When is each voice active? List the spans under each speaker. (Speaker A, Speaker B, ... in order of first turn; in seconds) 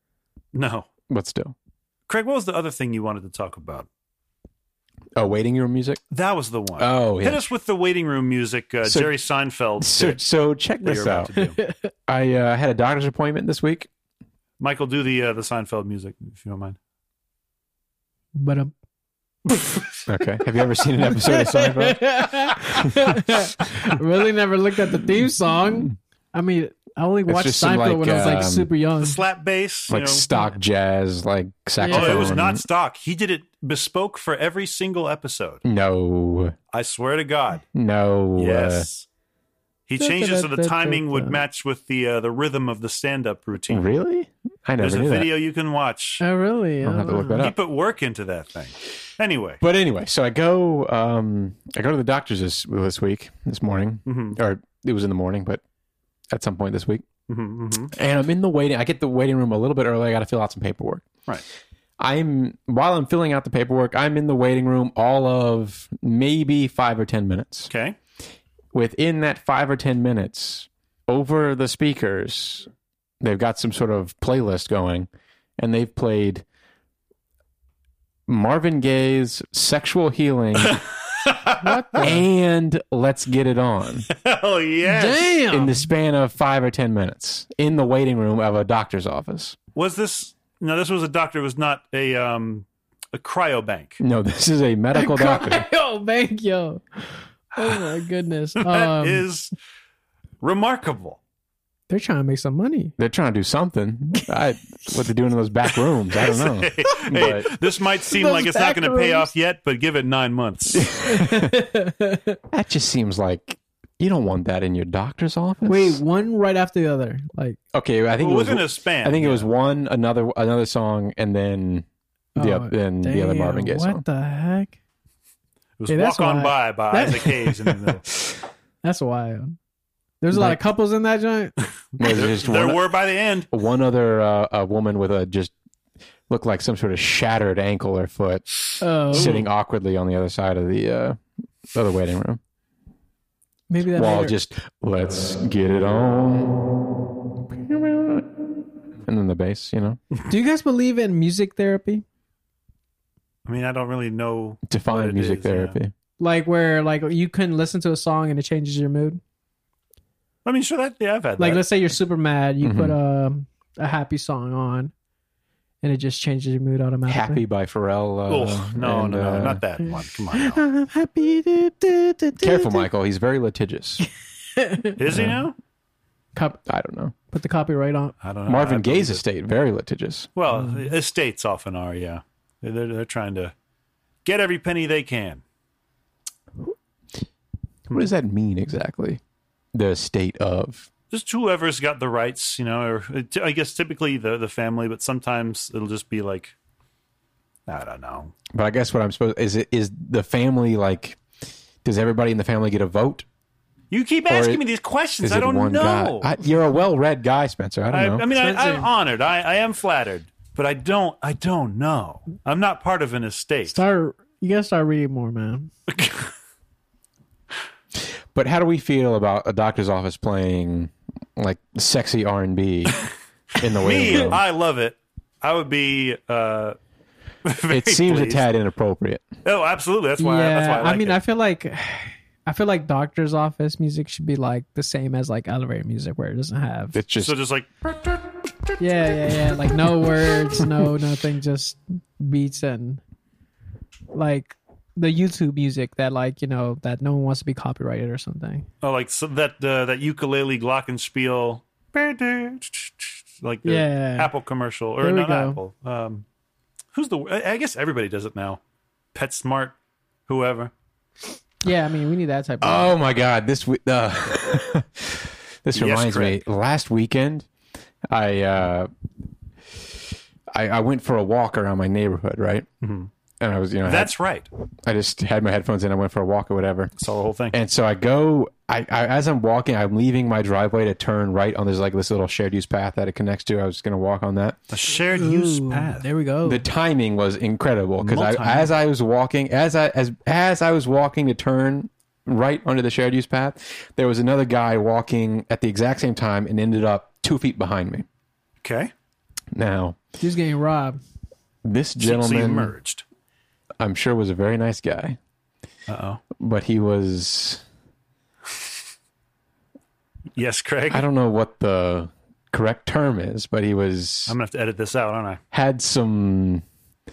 Speaker A: 0.5-0.9, 2.1-3.9, 6.1-10.2, 10.8-11.6, 14.6-16.8, 29.0-30.3, 31.9-35.6, 36.7-37.6, 38.4-39.1, 39.9-43.9, 44.8-46.2, 47.3-49.6, 54.1-54.4, 57.3-57.9, 67.7-68.0, 80.6-82.1, 84.1-85.4, 89.8-94.0, 97.5-98.0, 98.6-99.5, 100.4-101.2, 106.1-110.9, 118.2-119.5, 125.8-128.1, 132.0-133.5, 139.1-139.5, 153.5-155.8, 160.4-161.6, 168.3-170.6, 175.0-175.6, 178.2-179.2, 180.4-183.5, 184.2-185.4, 191.1-196.5, 197.7-198.3, 203.9-206.3, 207.9-213.8, 215.9-216.3, 223.6-226.8, 227.4-228.4, 229.4-231.2, 237.2-238.2, 248.8-256.2, 256.9-258.6, 259.1-259.8, 260.3-260.7, 265.8-266.4, 272.8-273.1, 273.9-274.5, 277.0-277.6, 284.7-286.1, 288.0-288.7, 298.6-298.9, 302.0-303.0, 305.9-306.2, 310.4-311.1, 314.3-315.4
Speaker B: 1.1-1.6, 5.2-6.0, 6.8-7.4, 8.8-9.1, 9.8-11.3, 12.1-13.9, 20.1-22.2, 22.8-23.2, 27.3-28.7, 29.9-32.6, 35.6-36.5, 37.7-38.9, 43.7-45.3, 46.8-47.6, 49.6-55.6, 56.3-57.1, 57.9-61.1, 62.0-67.7, 68.7-72.7, 73.2-76.5, 78.3-80.8, 82.0-84.1, 85.5-89.6, 94.0-95.7, 103.0-107.5, 110.7-111.6, 112.5-116.0, 117.7-121.9, 122.4-124.0, 130.3-130.7, 132.0-132.8, 133.5-135.5, 136.3-138.5, 139.1-141.2, 141.7-142.4, 143.9-146.8, 147.4-148.4, 149.0-150.0, 154.7-155.9, 162.6-163.0, 167.1-169.6, 172.4-174.0, 175.1-175.4, 176.7-177.1, 178.5-180.3, 187.9-189.2, 189.7-190.9, 198.5-201.2, 201.8-203.3, 204.3-204.6, 205.2-208.3, 218.3-223.0, 223.6-224.4, 227.7-229.3, 236.9-237.4, 262.6-267.5, 268.1-268.9, 270.5-272.7, 273.4-274.1, 274.9-276.9, 277.5-284.6, 286.4-298.1, 299.5-300.0, 301.6-302.7, 303.8-305.2, 306.4-307.6, 310.9-314.4, 315.5-316.6
Speaker C: 11.4-11.9, 18.4-18.7, 19.5-19.7, 21.0-29.2, 31.8-32.4, 40.0-41.4, 46.2-47.5, 81.6-82.2, 84.8-85.8, 95.0-99.2, 101.9-103.0, 108.1-109.3, 111.0-112.4, 115.7-117.6, 122.4-124.8, 125.9-127.6, 128.8-129.6, 130.2-131.5, 138.8-139.3, 143.7-144.4, 150.3-152.1, 156.2-159.2, 161.4-164.9, 165.8-167.4, 170.3-172.8, 174.6-175.0, 176.3-176.6, 177.3-178.2, 208.3-208.9, 213.7-215.7, 230.2-237.0, 238.8-243.0, 244.1-248.7, 253.7-254.3, 255.0-255.6, 261.6-263.0, 285.1-286.6, 300.2-301.0